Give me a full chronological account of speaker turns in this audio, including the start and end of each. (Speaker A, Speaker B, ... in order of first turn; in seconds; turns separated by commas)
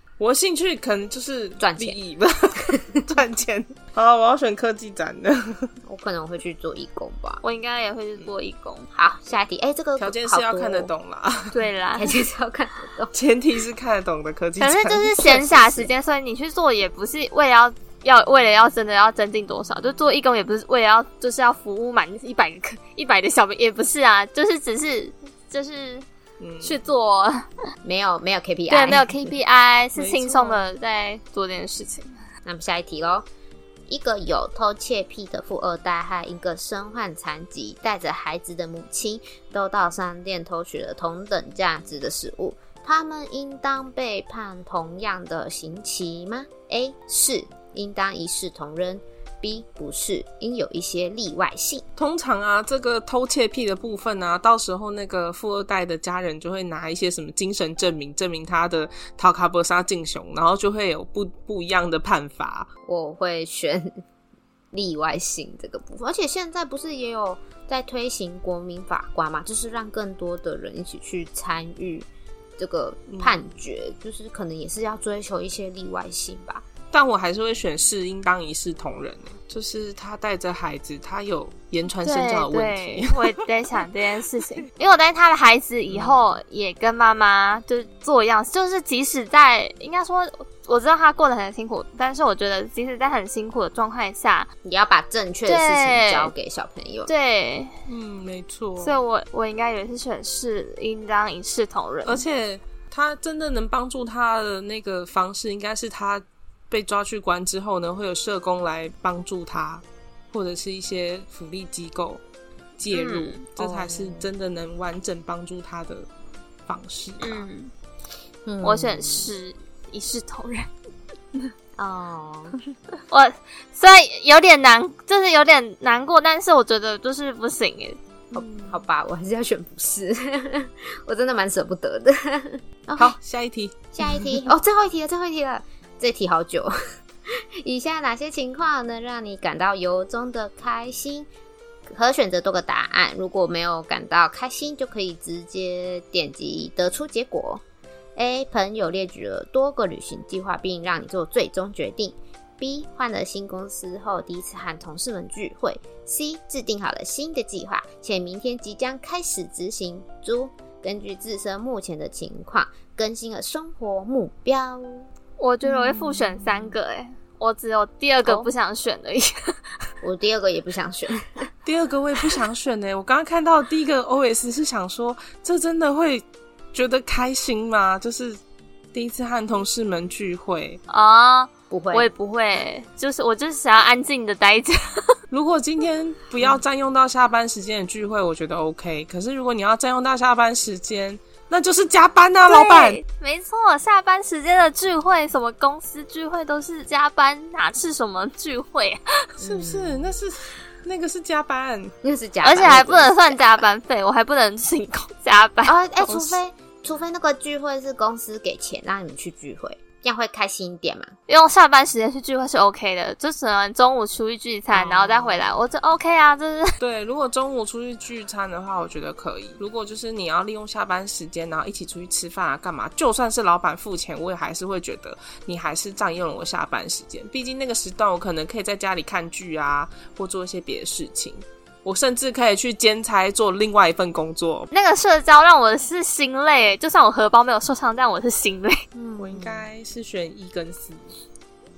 Speaker A: 0.2-5.7, Speaker B: 1.6-2.0, Speaker B: 2.7-3.0, Speaker B: 5.8-7.4, Speaker C: 7.4-8.9, Speaker B: 8.9-10.9, Speaker A: 10.0-11.6, Speaker C: 11.5-12.1, Speaker B: 11.9-13.1, Speaker A: 13.1-15.2, Speaker C: 14.6-26.1, Speaker B: 15.1-15.9, Speaker A: 26.4-26.8, Speaker C: 26.6-27.5, Speaker B: 27.8-29.3, Speaker C: 28.7-32.1, Speaker A: 29.9-30.7, Speaker B: 32.5-33.2, Speaker B: 33.9-51.8, Speaker A: 52.0-62.7, Speaker B: 62.9-64.0, Speaker B: 64.7-76.6, Speaker A: 73.1-73.4, Speaker A: 76.9-83.9, Speaker C: 82.0-94.5, Speaker B: 85.9-86.2, Speaker B: 94.6-97.1, Speaker C: 95.5-96.3, Speaker C: 97.1-97.8, Speaker A: 97.9-99.0, Speaker C: 98.8-102.2, Speaker A: 102.0-112.2, Speaker A: 112.8-116.1, Speaker C: 112.9-113.4, Speaker B: 113.6-114.3, Speaker A: 116.7-117.5, Speaker C: 117.2-117.7, Speaker B: 118.5-119.3, Speaker C: 118.6-120.7, Speaker B: 121.8-122.6, Speaker C: 123.1-128.0, Speaker B: 128.3-133.2, Speaker A: 133.0-134.3, Speaker B: 133.9-136.7, Speaker B: 137.3-141.3, Speaker B: 141.9-147.6, Speaker B: 148.2-165.1, Speaker C: 165.4-169.6, Speaker B: 165.7-166.0, Speaker B: 170.0-171.5, Speaker A: 171.6-178.4, Speaker A: 178.9-180.8, Speaker C: 180.9-185.2, Speaker B: 181.7-182.1, Speaker A: 185.3-193.0, Speaker C: 192.5-199.3, Speaker B: 199.4-200.1, Speaker A: 199.4-201.9, Speaker B: 202.0-203.6, Speaker C: 202.4-206.2, Speaker B: 205.7-211.1, Speaker C: 211.3-216.8, Speaker B: 214.7-215.5, Speaker A: 216.8-234.7, Speaker C: 234.7-238.8, Speaker B: 238.9-239.7, Speaker A: 239.2-241.1